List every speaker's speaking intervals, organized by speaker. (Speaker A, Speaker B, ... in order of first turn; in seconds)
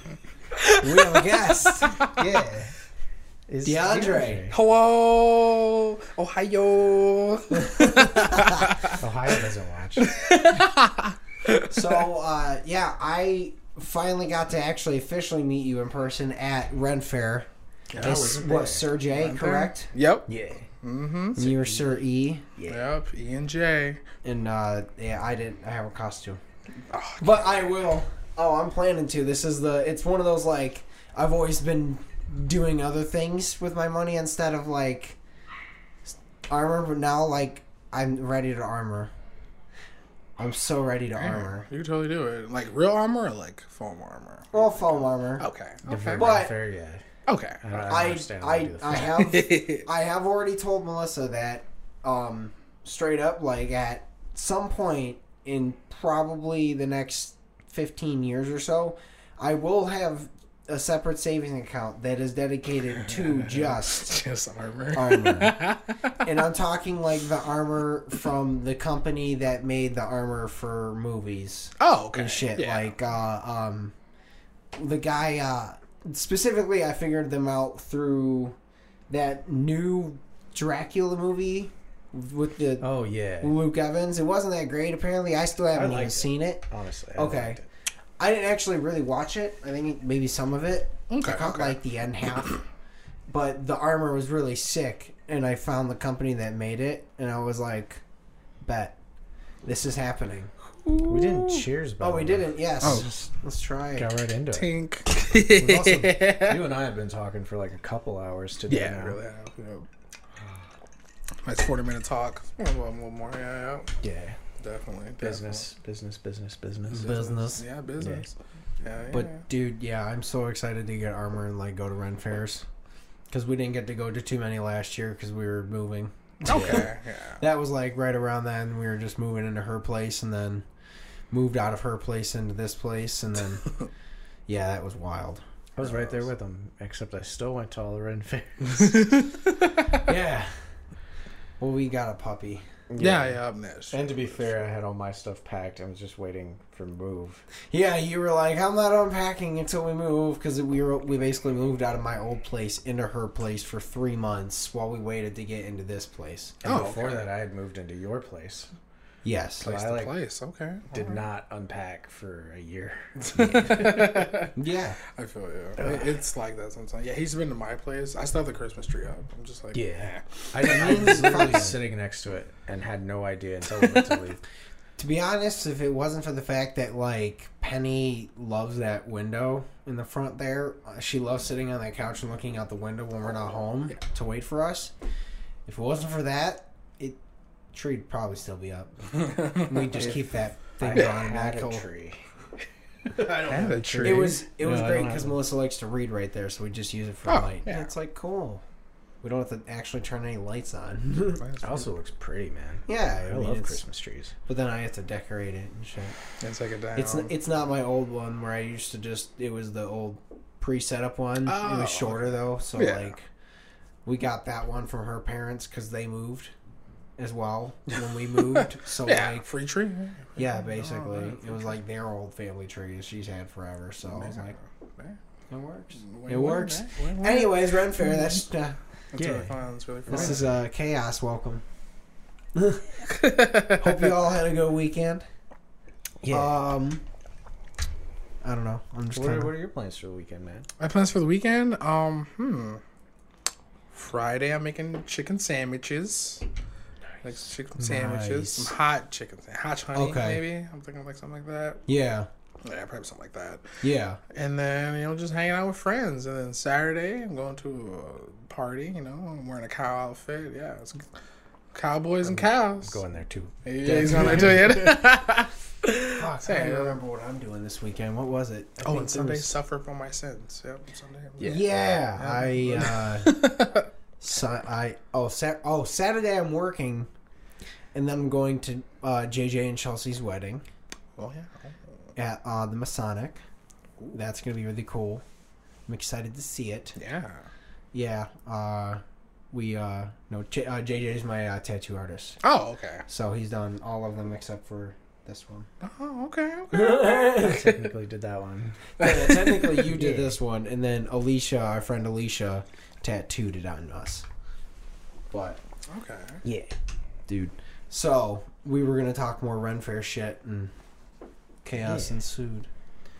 Speaker A: 0.5-2.2, 4.5-9.0, 10.0-12.0, 17.9-18.3, 19.1-20.3, 20.8-21.5, 22.7-24.0, 26.9-27.7, 41.1-46.3, 47.3-47.6, 48.9-49.9, 63.0-66.2, 71.8-72.9, 91.1-91.8, 100.8-101.7, 102.8-103.1, 104.5-106.6, 108.7-109.9, 111.4-113.9, 114.6-115.7, 116.9-119.4, 126.5-127.4, 135.8-136.2, 138.6-140.0, 143.0-144.6, 156.6-157.2, 159.6-161.2, 163.2-164.5, 165.1-171.6, 173.8-174.1, 189.5-189.7, 190.9-191.2, 193.4-194.4, 197.3-197.9, 201.3-201.9, 206.4-207.3, 211.4-213.1, 218.3-221.7, 224.1-225.2, 226.0-228.4, 229.1-230.5, 233.1-233.9, 240.8-242.8, 243.9-246.4, 247.2-251.8, 252.6-253.8, 254.3-261.1, 261.7-263.0, 263.6-267.0, 268.8-271.6, 272.2-273.9, 281.2-281.8, 287.0-287.4, 292.4-293.1, 295.8-297.9, 299.0-299.9, 305.9-306.4
Speaker B: 0.8-2.0, 3.6-4.5, 7.6-8.7, 11.7-19.9, 21.3-22.5, 24.2-26.4, 27.2-35.2, 36.1-39.1, 40.4-41.7, 44.5-45.5, 46.2-46.6, 47.8-64.1, 64.9-65.5, 66.2-73.9, 74.7-78.6, 79.1-87.6, 88.2-92.6, 93.3-98.0, 98.6-99.0, 99.6-100.5, 102.0-104.1, 105.5-106.2, 116.9-117.7, 119.1-122.7, 123.3-130.7, 131.3-133.7, 134.5-135.4, 140.0-140.6, 141.6-142.6, 147.7-156.7, 159.2-159.7, 164.5-165.0, 170.6-171.8, 175.0-184.9, 185.7-187.2, 187.7-191.8, 193.6-198.6, 199.2-201.4, 202.9-203.8, 204.4-206.2, 206.9-213.3, 214.1-216.5, 217.2-219.4, 220.4-224.5, 225.5-228.8, 230.1-231.6, 232.5-232.9, 233.7-235.2, 236.3-237.0, 238.4-239.5, 247.8-248.7, 249.9-250.4, 251.9-252.3, 253.8-254.2, 263.9-264.8, 266.1-269.6, 271.4-273.5, 274.2-277.1, 277.9-280.6, 282.1-283.4, 284.1-285.2, 285.9-287.0, 287.9-292.4, 293.1-295.7, 296.7-297.6, 299.0-304.2, 305.3-305.6, 307.3-310.7, 311.6-312.7
Speaker C: 2.1-2.7, 3.5-4.6, 9.0-10.1, 17.9-18.9, 20.3-20.7, 21.5-21.8, 22.6-22.9, 45.9-47.0, 47.6-49.2, 82.8-83.5, 85.7-87.7, 101.0-103.0, 103.9-104.7, 106.4-109.2, 114.0-114.4, 115.2-117.2, 118.0-118.3, 126.5-126.9, 135.8-139.1, 142.9-143.4, 143.9-147.4, 156.6-158.7, 159.6-160.1, 160.9-164.3, 169.7-174.4, 189.9-190.2, 190.8-192.2, 193.1-195.4, 201.6-204.3, 229.2-230.5, 236.2-236.6, 239.1-240.7, 262.2-264.9, 271.4-271.9, 297.3-298.9, 299.9-300.4, 306.4-306.7, 311.7-312.2